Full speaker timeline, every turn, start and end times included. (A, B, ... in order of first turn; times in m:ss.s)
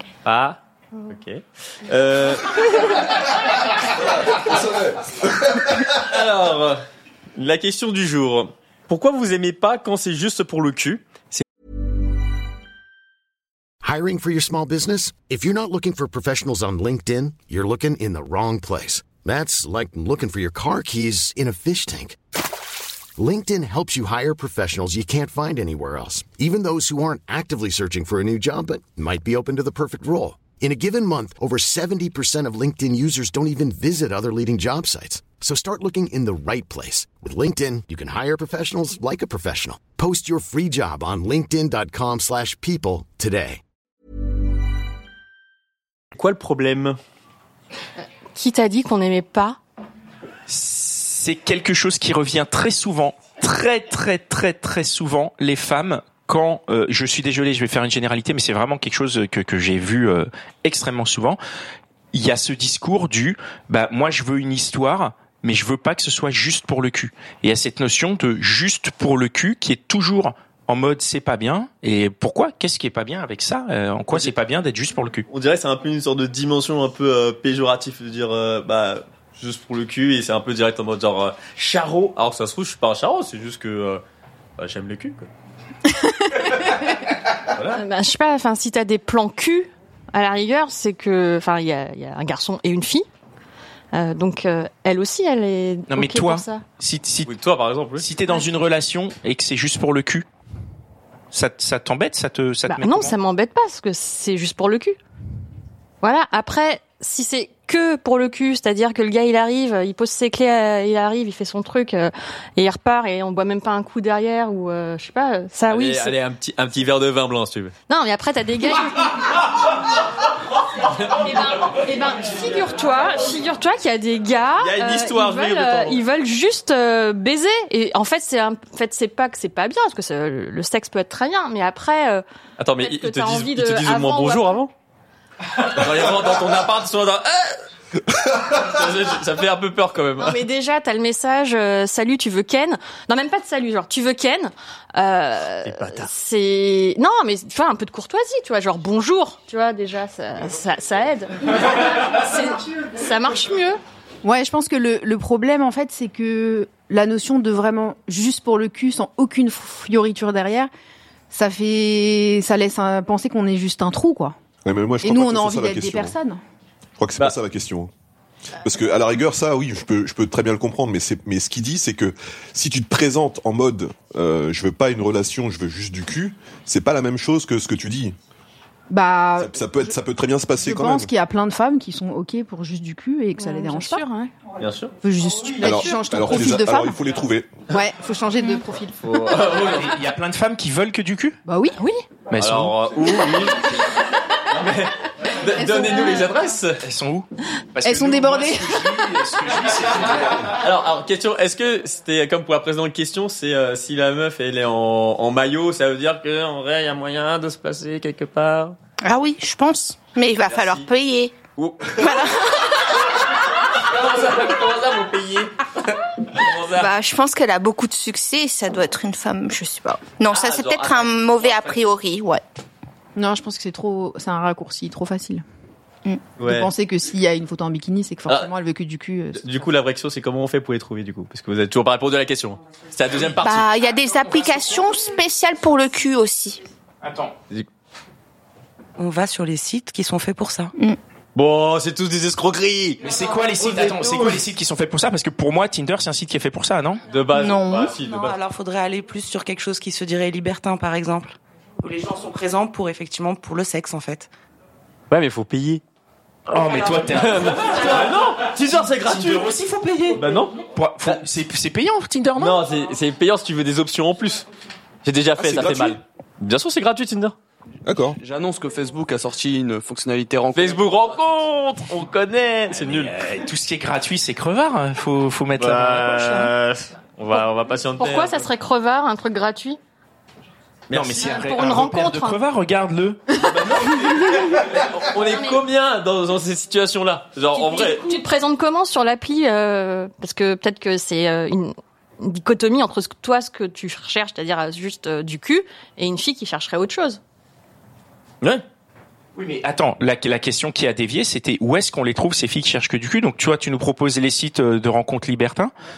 0:00.2-0:03.1 A
0:06.0-0:06.8 A
0:07.4-0:11.4 A
0:13.8-0:22.2 B
0:23.2-0:43.6 B
0:46.1-0:47.0 A
0:48.3-0:49.6 C
0:50.5-1:01.4 D
1:02.1-1:15.2 D
1:15.3-1:24.0 A
1:24.6-1:25.3 A
1:27.7-1:33.1 C
1:33.9-1:36.6 C
1:35.9-1:37.3 D
1:37.2-1:38.1 A
1:38.0-1:40.2 D
1:41.3-1:43.1 D
1:42.7-1:45.0 C
1:46.0-1:56.2 C
1:55.7-1:57.7 A
1:57.9-1:59.4 C
2:01.2-2:14.7 C
2:04.6-2:06.0 A
2:12.6-2:14.7 A
2:15.5-2:20.4 A
2:20.2-2:33.8 C
2:25.7-2:26.1 A
2:34.2-2:40.7 E
2:41.3-2:44.4 E
2:44.6-2:46.2 F
2:45.0-2:46.4 E
2:47.0-2:47.9 F
2:48.6-2:58.1 F
2:58.9-2:59.9 E
2:59.4-3:01.1 F
3:00.6-3:04.0 E
3:03.4-3:04.3 C
3:04.6-3:04.9 A
3:05.0-3:07.0 E
3:05.6-3:07.7 F
3:05.6-3:05.9 C
3:07.7-3:09.0 E
3:09.0-3:09.9 A
3:09.5-3:11.4 D
3:11.4-3:11.8 E
3:12.3-3:12.7 D
3:12.4-3:13.6 A
3:14.5-3:16.8 A
3:15.6-3:16.2 E
3:16.8-3:20.6 D
3:17.8-3:19.2 E
3:20.5-3:28.8 A
3:29.0-3:31.4 G
3:30.4-3:30.9 A
3:31.6-3:32.4 A
3:32.0-3:32.5 G
3:33.8-3:36.9 A
3:36.8-3:42.4 G
3:40.3-3:41.8 A
3:43.2-3:45.4 E
3:46.4-3:46.7 A
3:46.5-3:49.4 E
3:49.4-3:53.7 A
3:53.4-3:56.6 G
3:57.0-3:57.3 D
3:59.0-4:00.7 H
4:01.4-4:03.0 A
4:03.0-4:07.0 D
4:07.1-4:08.4 A
4:07.3-4:07.9 G
4:07.9-4:14.3 H
4:15.1-4:15.8 A
4:16.5-4:22.6 D
4:17.0-4:19.5 A
4:20.2-4:21.2 A
4:22.4-4:24.4 A
4:25.0-4:27.4 A
4:25.4-4:26.0 F
4:27.9-4:28.2 F
4:28.1-4:30.8 I
4:30.5-4:33.1 A
4:32.7-4:36.5 D
4:35.6-4:38.5 A
4:37.3-4:39.8 C
4:40.9-4:41.3 A
4:40.9-4:43.3 D
4:41.2-4:42.4 C
4:43.4-4:48.1 A
4:44.3-4:44.6 C
4:45.2-4:45.6 C
4:47.5-4:57.2 C
4:59.4-5:05.7 D